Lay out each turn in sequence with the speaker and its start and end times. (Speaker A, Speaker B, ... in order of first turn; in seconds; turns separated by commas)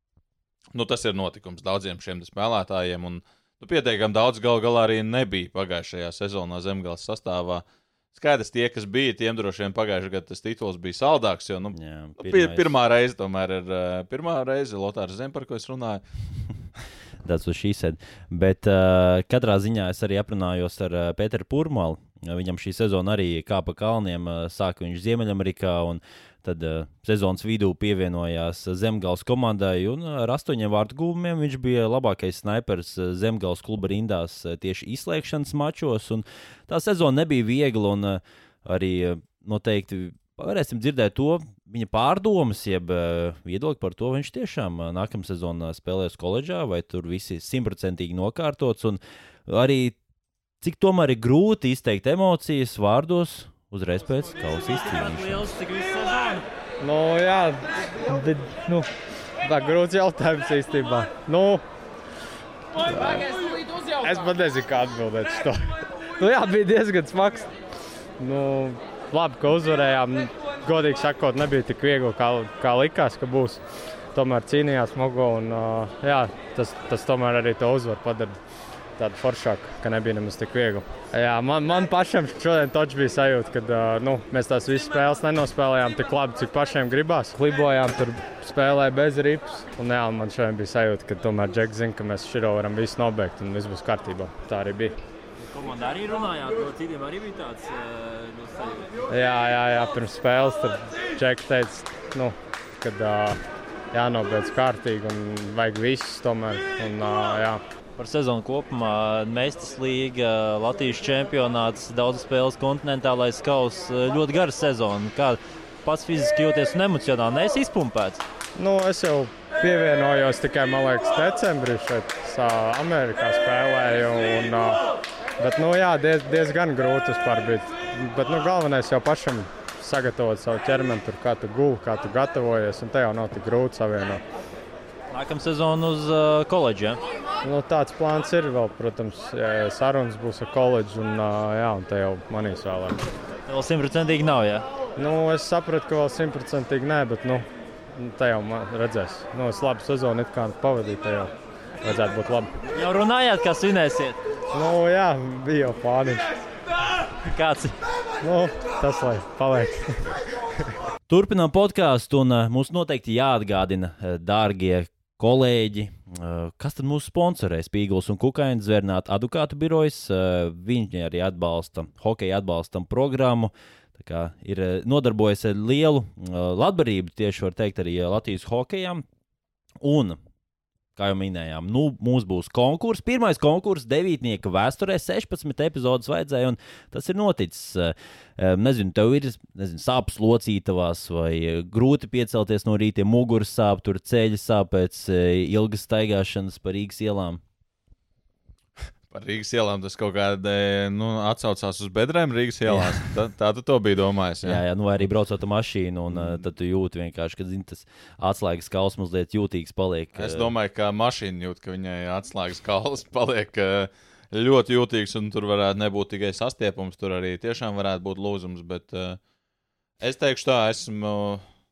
Speaker A: 0.7-16.0, Speaker B: 11.7-12.7, Speaker B: 17.2-50.0, Speaker B: 50.6-56.4, Speaker C: 56.8-58.9, Speaker C: 59.4-61.6, Speaker C: 62.8-63.4, Speaker C: 64.0-67.5, Speaker C: 68.2-73.6, Speaker C: 74.1-78.4, Speaker C: 79.0-94.9, Speaker B: 95.4-98.9, Speaker C: 99.1-103.4, Speaker C: 103.9-107.6, Speaker B: 108.0-118.2, Speaker C: 118.6-124.8, Speaker C: 125.4-134.2, Speaker B: 135.1-137.0, Speaker C: 137.4-143.0, Speaker B: 143.5-144.6, Speaker C: 145.0-152.5, Speaker B: 152.7-154.2, Speaker C: 154.5-156.3, Speaker B: 157.2-157.8, Speaker C: 158.2-160.1, Speaker B: 161.1-179.0, Speaker B: 179.8-180.2, Speaker B: 180.9-197.4, Speaker A: 199.1-204.6, Speaker B: 202.7-203.0, Speaker B: 204.4-210.5, Speaker A: 206.1-206.4, Speaker A: 210.2-219.2, Speaker A: 220.0-221.4